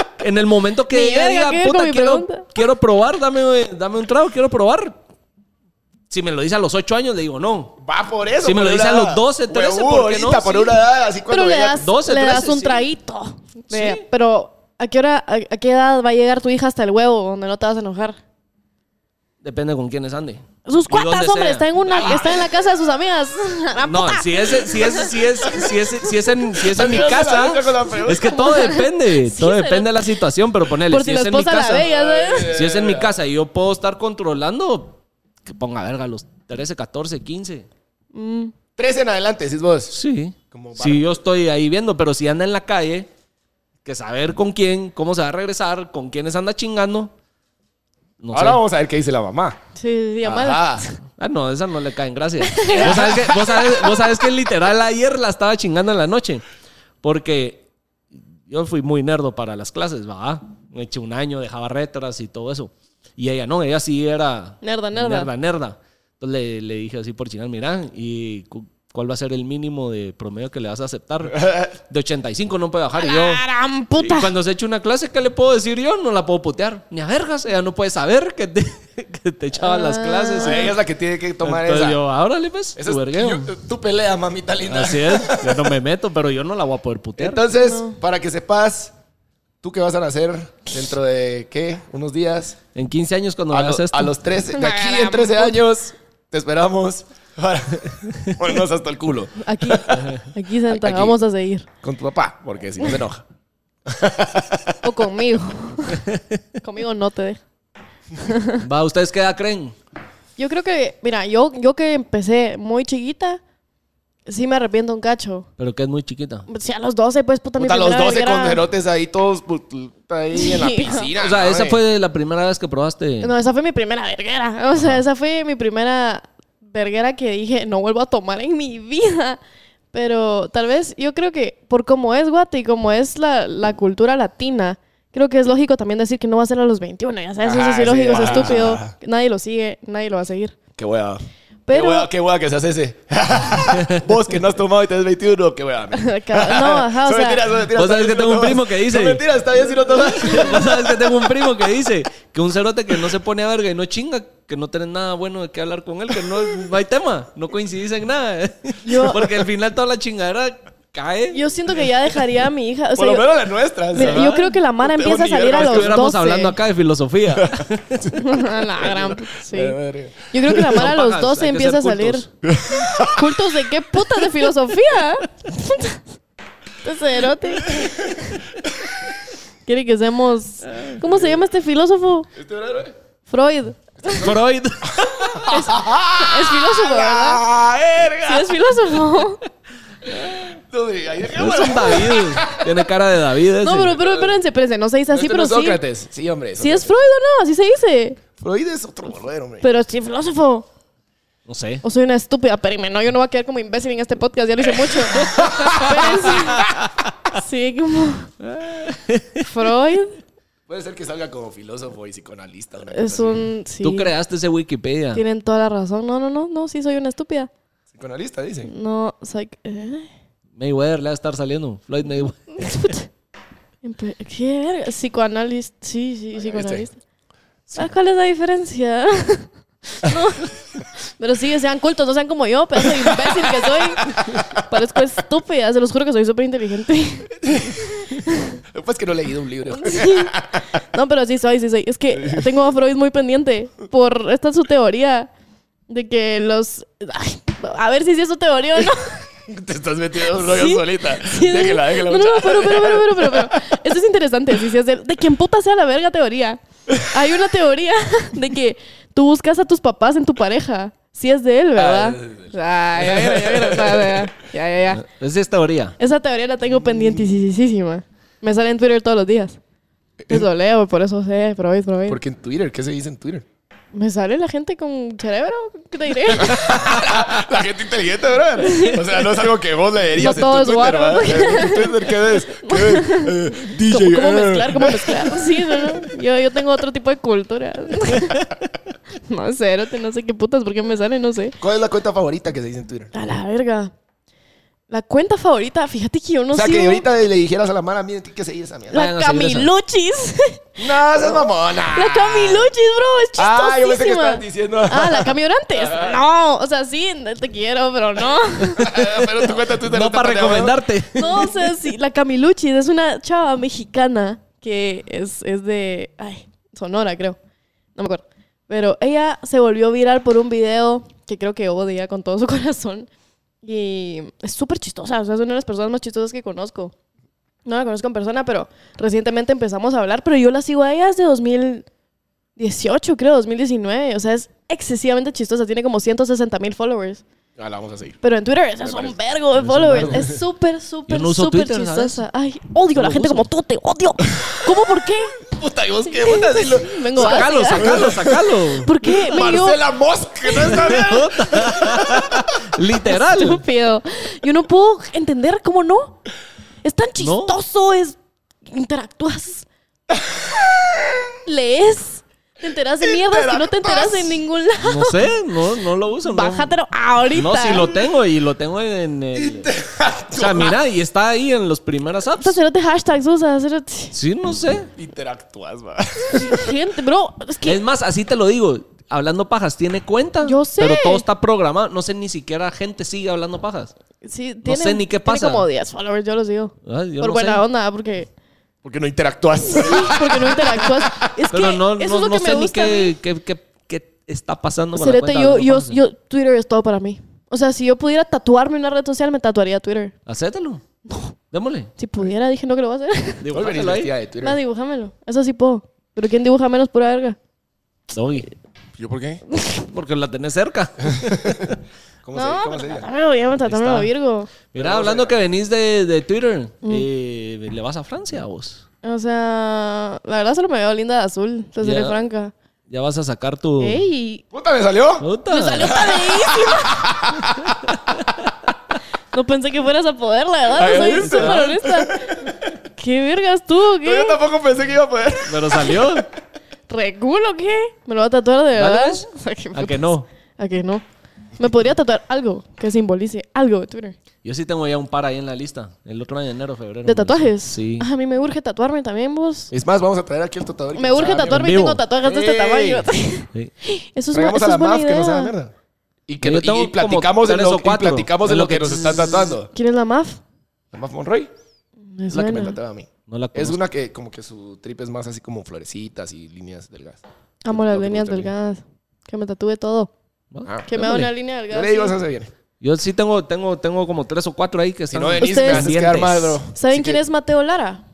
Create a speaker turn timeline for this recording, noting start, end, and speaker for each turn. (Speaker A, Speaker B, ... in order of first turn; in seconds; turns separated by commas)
Speaker A: 0.2-5.0, Speaker B: 0.9-2.5, Speaker A: 6.1-7.7, Speaker C: 7.8-11.8, Speaker A: 8.4-10.8, Speaker B: 11.3-18.2, Speaker A: 11.8-12.8, Speaker A: 13.7-14.0, Speaker A: 19.4-22.2, Speaker B: 20.6-25.7, Speaker C: 21.9-22.4, Speaker A: 23.8-31.9, Speaker C: 26.6-28.4, Speaker B: 28.2-30.0, Speaker B: 30.9-32.5, Speaker C: 31.7-33.1, Speaker A: 32.4-37.7, Speaker B: 38.1-38.5, Speaker C: 38.8-40.0, Speaker A: 39.9-43.1, Speaker C: 40.5-41.1, Speaker A: 43.8-47.1, Speaker A: 48.2-48.6, Speaker C: 48.3-49.6, Speaker B: 49.8-51.0, Speaker C: 50.2-50.8, Speaker A: 51.2-56.4, Speaker B: 52.4-53.9, Speaker C: 52.7-53.6, Speaker A: 57.0-57.6, Speaker A: 58.1-73.4, Speaker B: 64.6-65.3, Speaker C: 71.3-71.7, Speaker B: 73.0-74.3, Speaker A: 74.0-80.7, Speaker B: 79.6-80.7, Speaker C: 80.4-82.0, Speaker A: 81.4-83.5, Speaker C: 82.8-85.7, Speaker A: 84.6-87.4, Speaker C: 87.2-88.9, Speaker B: 87.5-88.0, Speaker C: 89.6-92.6, Speaker A: 92.7-94.1, Speaker C: 93.5-100.1, Speaker B: 94.5-95.6, Speaker B: 99.4-101.7, Speaker A: 99.9-100.3, Speaker C: 100.7-101.2, Speaker C: 101.8-103.2, Speaker C: 103.8-104.8, Speaker B: 104.8-106.0, Speaker B: 106.6-107.4, Speaker B: 108.2-108.6, Speaker A: 108.6-109.7, Speaker B: 110.4-113.4, Speaker B: 114.2-115.5, Speaker A: 115.6-116.5, Speaker B: 116.5-118.6, Speaker C: 117.6-121.8, Speaker B: 120.3-121.1, Speaker A: 121.2-123.3, Speaker B: 123.2-129.4, Speaker B: 129.9-140.5, Speaker C: 137.4-138.9, Speaker C: 140.8-151.2, Speaker B: 141.7-142.1, Speaker B: 145.9-147.4, Speaker A: 147.7-149.2, Speaker A: 149.9-161.4, Speaker B: 158.8-159.3, Speaker B: 161.3-163.2, Speaker C: 162.9-165.9, Speaker B: 163.9-166.6, Speaker A: 165.5-168.0, Speaker C: 167.3-170.8, Speaker B: 168.1-169.8, Speaker B: 170.3-172.2, Speaker A: 170.7-172.3, Speaker C: 172.4-173.4, Speaker B: 172.9-176.0, Speaker B: 176.8-178.4, Speaker C: 177.6-179.0, Speaker B: 179.7-182.3, Speaker C: 182.3-182.9, Speaker B: 183.3-184.3, Speaker C: 184.0-188.6, Speaker A: 184.2-185.5, Speaker B: 185.5-187.4, Speaker B: 188.2-189.4, Speaker C: 190.0-192.9, Speaker A: 191.3-194.0, Speaker B: 193.6-195.8, Speaker C: 193.9-194.4, Speaker C: 195.1-196.9, Speaker B: 196.6-198.2, Speaker C: 198.4-199.7, Speaker B: 199.6-200.7, Speaker A: 201.4-201.8, Speaker B: 201.8-206.7, Speaker C: 204.8-206.7, Speaker B: 207.3-208.3, Speaker A: 208.4-209.5, Speaker B: 209.4-210.2, Speaker C: 210.7-213.5, Speaker B: 212.9-214.1, Speaker A: 213.8-215.2, Speaker B: 215.1-217.5, Speaker C: 217.9-218.7, Speaker B: 218.7-220.1, Speaker A: 220.6-222.9, Speaker B: 222.6-223.1, Speaker B: 223.8-227.0, Speaker C: 226.4-226.9, Speaker B: 227.7-237.4, Speaker C: 232.9-234.6, Speaker C: 237.4-237.9, Speaker B: 238.0-238.6, Speaker C: 238.7-240.8, Speaker B: 239.7-240.4, Speaker B: 240.9-245.3, Speaker C: 242.1-242.5, Speaker B: 245.9-249.2, Speaker C: 249.5-253.8, Speaker B: 250.3-265.0, Speaker C: 261.8-264.3, Speaker A: 264.9-266.0, Speaker B: 266.0-269.6, Speaker C: 266.7-267.3, Speaker C: 270.2-270.4, Speaker B: 270.3-272.2, Speaker C: 272.1-273.4, Speaker B: 273.9-276.8, Speaker C: 276.3-286.1, Speaker B: 278.6-279.2, Speaker B: 280.1-288.4, Speaker B: 289.3-291.6, Speaker C: 291.6-293.1, Speaker B: 293.1-293.9, Speaker B: 294.9-297.0, Speaker C: 296.5-299.0, Speaker B: 298.9-300.6, Speaker A: 298.9-299.7, Speaker C: 300.8-302.7, Speaker B: 301.9-309.1, Speaker C: 303.4-306.2, Speaker C: 308.7-310.8, Speaker A: 309.6-311.5, Speaker B: 311.1-317.4, Speaker B: 317.9-323.1, Speaker B: 323.6-326.9, Speaker B: 327.6-331.9, Speaker B: 332.6-337.2, Speaker C: 337.6-338.2, Speaker B: 338.2-345.4, Speaker C: 338.8-339.1, Speaker A: 339.6-340.2, Speaker C: 339.9-340.4, Speaker A: 341.1-342.2, Speaker A: 342.9-343.4, Speaker C: 344.4-352.5, Speaker B: 346.1-348.1, Speaker A: 347.1-348.9, Speaker B: 348.8-349.8, Speaker B: 350.4-351.1, Speaker A: 350.6-353.6, Speaker B: 353.0-356.2, Speaker B: 356.8-359.7, Speaker A: 357.2-357.5, Speaker C: 360.1-361.3, Speaker B: 361.4-365.3, Speaker C: 363.0-364.4, Speaker A: 364.8-366.7, Speaker B: 366.2-367.9, Speaker A: 367.3-369.7, Speaker C: 369.3-370.8, Speaker A: 370.3-372.6, Speaker B: 372.4-374.1, Speaker A: 374.1-374.9, Speaker C: 374.9-376.7, Speaker B: 376.3-377.8, Speaker A: 377.6-383.9, Speaker B: 380.4-381.2, Speaker B: 384.2-388.3, Speaker A: 384.6-385.7, Speaker A: 386.8-387.6, Speaker C: 388.8-391.3, Speaker B: 389.6-393.1, Speaker A: 391.5-396.0, Speaker B: 394.9-400.1, Speaker A: 400.2-400.8, Speaker A: 401.5-401.9, Speaker B: 402.0-403.5, Speaker A: 403.4-404.1, Speaker C: 403.5-404.6, Speaker B: 404.4-407.4, Speaker A: 408.1-408.5, Speaker C: 409.0-409.4, Speaker B: 409.5-409.8, Speaker A: 409.9-411.5, Speaker C: 411.0-413.1, Speaker B: 412.3-414.5, Speaker A: 413.6-414.1, Speaker A: 414.7-418.8, Speaker C: 414.7-415.4, Speaker B: 419.0-422.5, Speaker A: 421.8-422.1, Speaker A: 422.9-424.0, Speaker B: 423.8-424.4, Speaker C: 424.5-425.3, Speaker A: 425.2-426.0, Speaker B: 425.5-427.1, Speaker C: 425.8-428.1, Speaker B: 429.3-434.4, Speaker C: 430.7-432.7, Speaker A: 431.1-431.8, Speaker C: 434.0-436.2, Speaker A: 435.4-436.3, Speaker B: 436.9-441.0, Speaker A: 438.7-440.3, Speaker B: 441.6-444.1, Speaker A: 444.4-448.1, Speaker B: 447.0-449.7, Speaker C: 449.7-453.1, Speaker B: 450.9-455.5, Speaker A: 451.4-452.0, Speaker C: 454.3-455.7, Speaker C: 456.3-459.7, Speaker A: 456.4-459.5, Speaker B: 459.7-460.4, Speaker C: 460.9-461.5, Speaker B: 462.1-462.8, Speaker C: 462.3-468.5, Speaker A: 463.3-463.8, Speaker B: 467.6-470.1, Speaker A: 470.5-471.3, Speaker C: 470.6-470.9, Speaker B: 470.9-472.1, Speaker C: 471.7-472.5, Speaker A: 472.8-476.6, Speaker C: 475.1-477.2, Speaker B: 475.4-475.9, Speaker B: 476.7-478.0